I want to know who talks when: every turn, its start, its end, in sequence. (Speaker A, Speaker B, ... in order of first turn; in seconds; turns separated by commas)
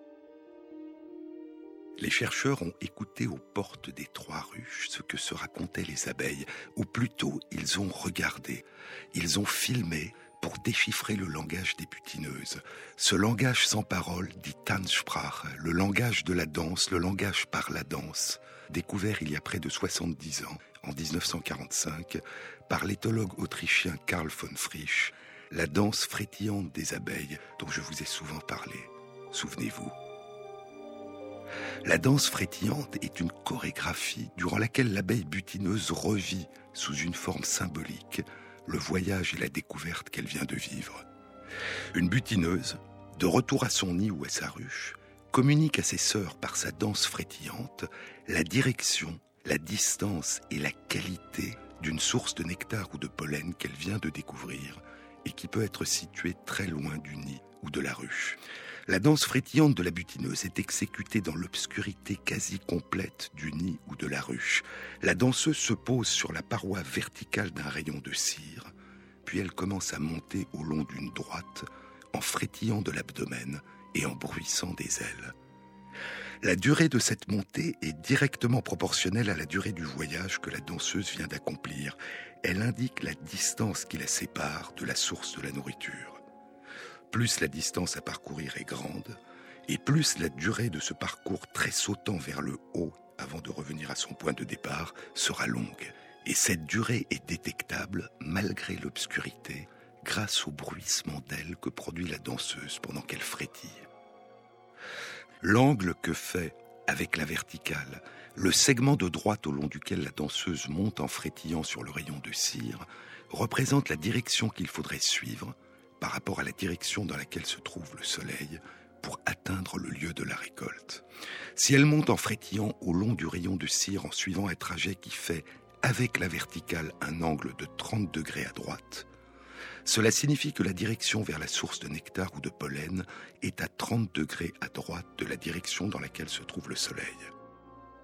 Speaker A: 2.0-29.9, Speaker A: 31.8-41.0, Speaker A: 41.9-68.7, Speaker A: 69.2-75.3, Speaker A: 76.4-86.2, Speaker A: 87.1-103.8, Speaker A: 105.4-129.1, Speaker A: 129.8-137.3